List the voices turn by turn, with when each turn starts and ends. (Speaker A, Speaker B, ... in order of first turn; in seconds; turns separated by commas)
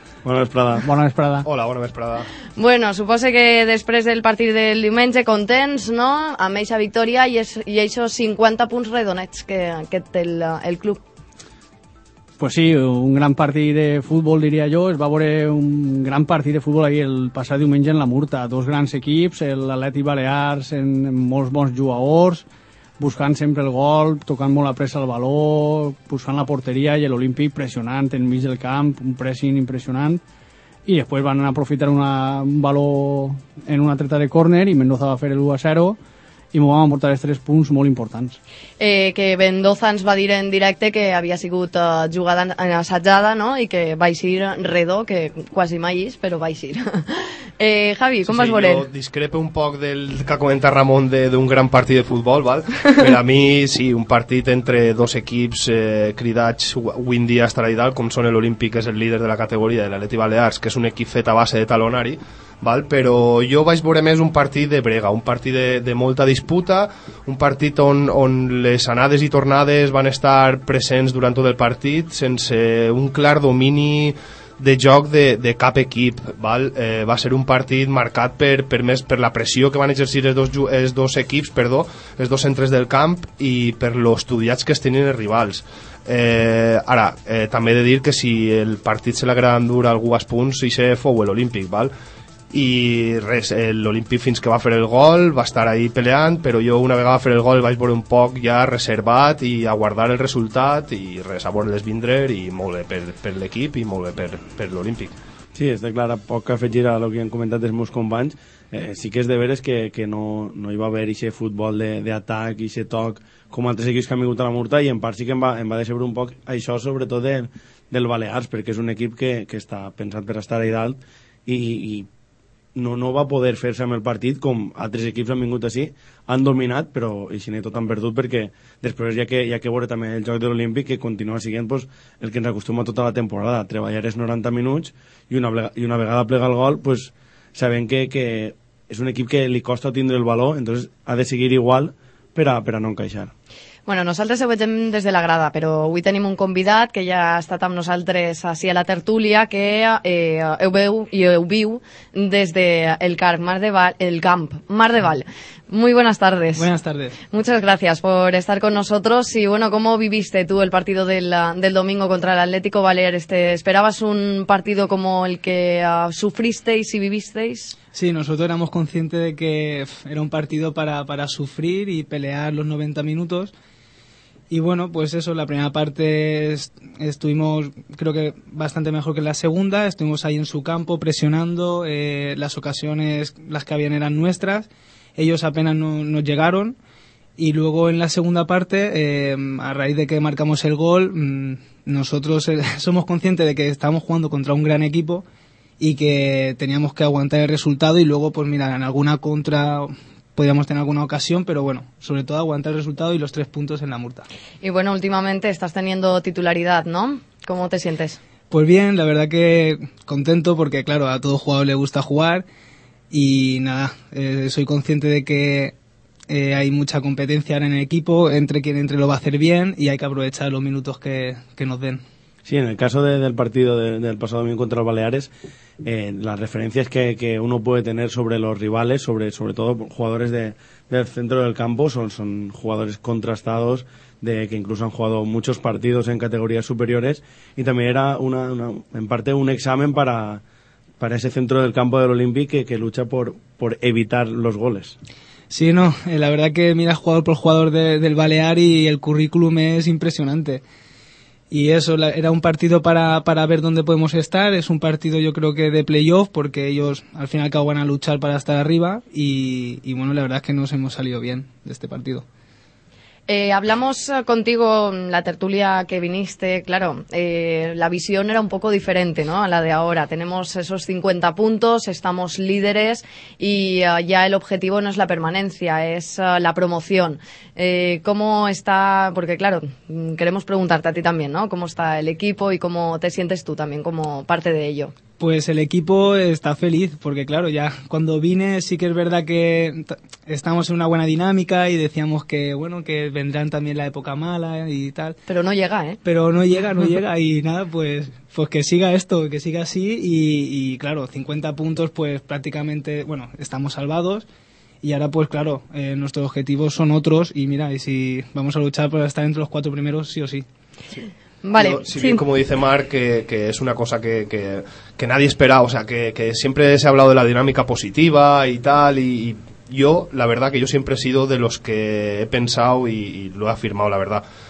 Speaker A: 0.2-0.8, Speaker B: 0.9-1.5, Speaker C: 1.4-2.3, Speaker D: 2.5-11.0, Speaker B: 12.4-22.4, Speaker B: 23.0-30.2, Speaker B: 30.9-36.0, Speaker B: 36.5-38.4, Speaker D: 38.8-48.9, Speaker C: 48.2-91.9, Speaker C: 92.5-105.2, Speaker A: 105.5-122.1, Speaker A: 122.7-143.3, Speaker D: 143.8-156.7, Speaker E: 156.6-157.2, Speaker D: 157.3-167.8, Speaker E: 167.9-173.5, Speaker E: 174.5-186.8, Speaker E: 187.4-195.2, Speaker E: 195.8-204.3, Speaker D: 204.6-208.2, Speaker E: 208.5-212.4, Speaker E: 213.1-215.7, Speaker E: 216.3-222.0, Speaker A: 222.4-225.3, Speaker A: 225.8-240.4, Speaker A: 241.0-244.9, Speaker E: 245.5-250.6, Speaker E: 251.5-262.2, Speaker D: 263.3-284.9, Speaker E: 285.2-295.1, Speaker D: 295.3-296.0, Speaker E: 296.0-304.2, Speaker E: 304.8-310.4, Speaker D: 311.4-312.2, Speaker C: 311.5-324.2